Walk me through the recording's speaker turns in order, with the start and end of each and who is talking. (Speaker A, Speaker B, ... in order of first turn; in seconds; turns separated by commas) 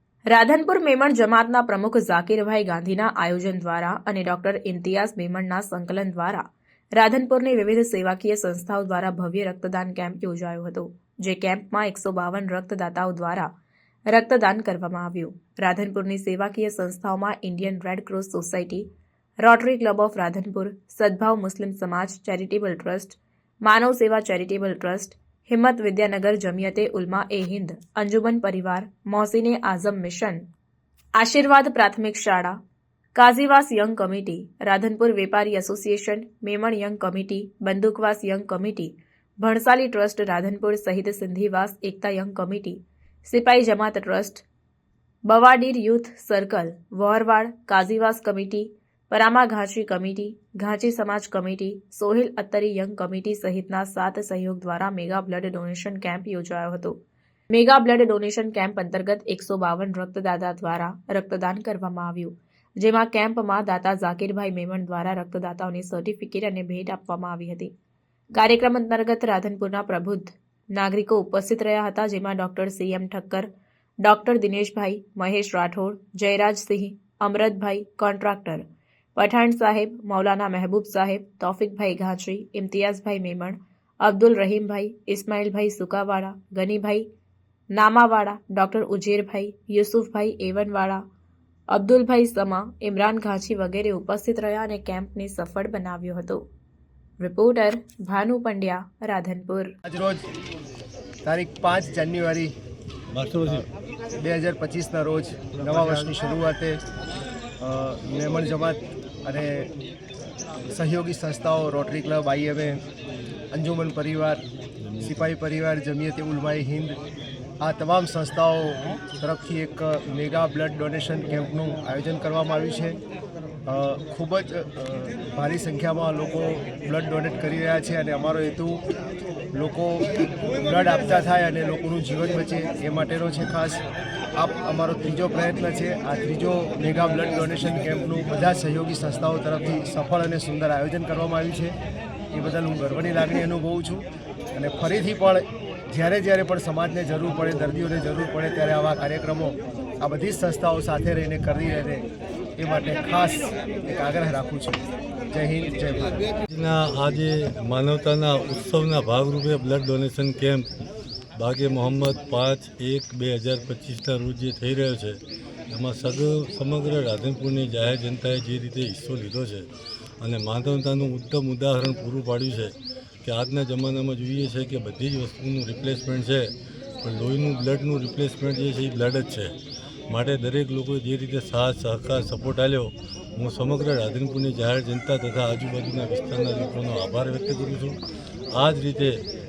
Speaker A: 0.3-6.4, Speaker A: 7.0-13.5, Speaker A: 14.1-18.9, Speaker A: 19.4-30.5, Speaker A: 31.2-32.6, Speaker A: 33.1-44.5, Speaker A: 45.3-57.0, Speaker A: 57.5-67.7, Speaker A: 68.3-73.5, Speaker A: 74.0-78.7, Speaker A: 79.2-87.1, Speaker A: 87.8-91.0, Speaker A: 91.7-96.5, Speaker A: 97.2-99.8, Speaker B: 99.8-100.2, Speaker B: 101.2-102.5, Speaker C: 103.1-103.7, Speaker B: 104.2-106.8, Speaker C: 105.7-106.1, Speaker B: 107.6-109.7, Speaker B: 110.7-112.8, Speaker B: 113.5-114.4, Speaker C: 114.9-115.3, Speaker B: 115.0-117.0, Speaker B: 117.6-123.0, Speaker B: 123.7-128.8, Speaker B: 129.5-133.8, Speaker B: 134.4-141.8, Speaker B: 142.3-154.8, Speaker B: 155.3-156.3, Speaker C: 156.5-160.7, Speaker C: 161.4-165.2, Speaker C: 165.7-169.7, Speaker C: 170.2-176.4, Speaker C: 177.0-179.5, Speaker C: 180.1-188.0, Speaker C: 188.5-189.2